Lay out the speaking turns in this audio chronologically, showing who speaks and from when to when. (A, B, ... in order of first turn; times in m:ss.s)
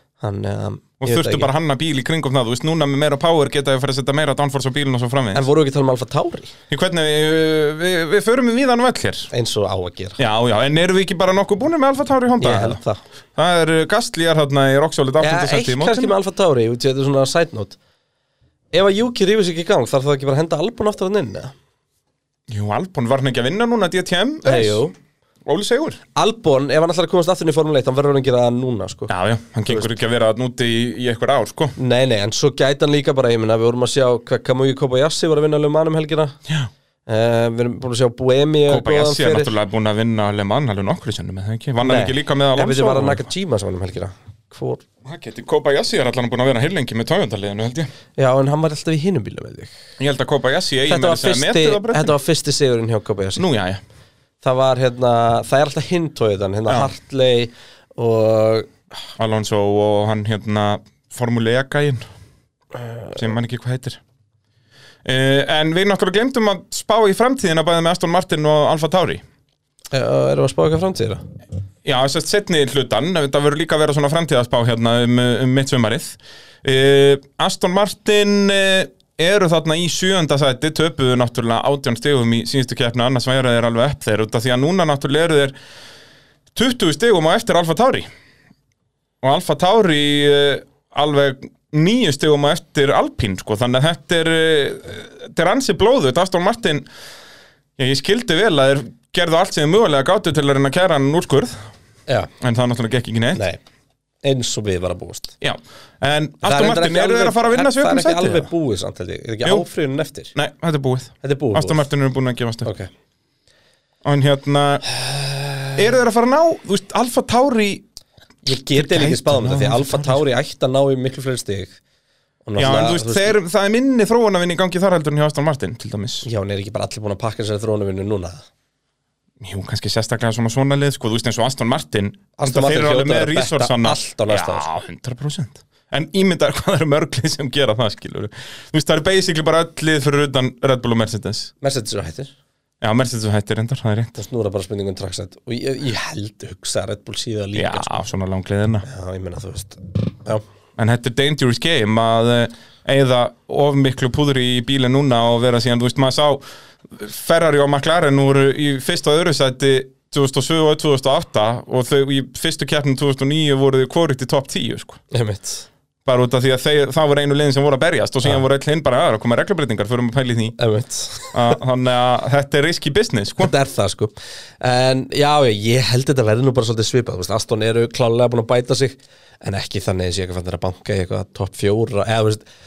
0:00.2-0:01.5 A
0:01.0-0:05.4 B
0:05.3-0:06.5 A
0:06.7-0:09.3 B
0:09.3-0:10.2 A
0:10.2-0:12.8 B
0:12.4-0:13.0 A
0:13.4-0:16.1 B
0:15.2-0:17.8 A
0:18.7-0:21.5 A
0:22.5-0:24.8 B
0:24.4-0:24.9 A
0:25.4-0:26.0 B
0:26.2-0:29.1 A
0:29.1-0:31.7 B
0:31.8-0:36.4 A
0:37.1-0:39.5 A
0:38.7-0:43.3 B
0:41.8-0:44.8 A
0:45.0-0:47.9 B
0:48.2-0:49.7 A
0:50.0-0:52.2 B
0:50.9-0:53.4 A
0:53.4-0:53.8 B
0:54.4-0:58.7 A
0:59.2-1:02.0 B
1:02.8-1:03.1 A
1:03.1-1:04.0 B
1:05.0-1:09.2 B
1:09.9-1:11.2 A
1:11.8-1:25.6 B
1:26.5-1:28.1 B
1:29.2-1:36.9 B
1:37.8-1:41.6 B
1:42.4-1:43.4 B
1:43.3-1:43.6 A
1:44.2-1:45.3 A
1:45.4-1:48.5 B
1:46.4-1:50.3 A
1:50.3-1:52.7 B
1:51.2-1:51.8 A
1:52.6-1:52.9 A
1:54.0-1:54.8 B
1:55.7-1:57.8 B
1:58.4-2:01.8 A
1:58.7-2:00.2 B
2:02.4-2:03.4 A
2:02.6-2:06.2 B
2:06.2-2:08.4 A
2:09.4-2:21.5 B
2:12.4-2:14.7 A
2:21.6-2:22.3 A
2:22.8-2:24.2 B
2:24.2-2:28.0 A
2:27.5-2:28.8 B
2:28.8-2:30.4 A
2:30.8-2:45.0 B
2:45.1-2:45.7 A
2:46.0-2:50.6 B
2:50.6-2:51.4 A
2:51.3-2:53.5 B
2:53.4-3:02.4 A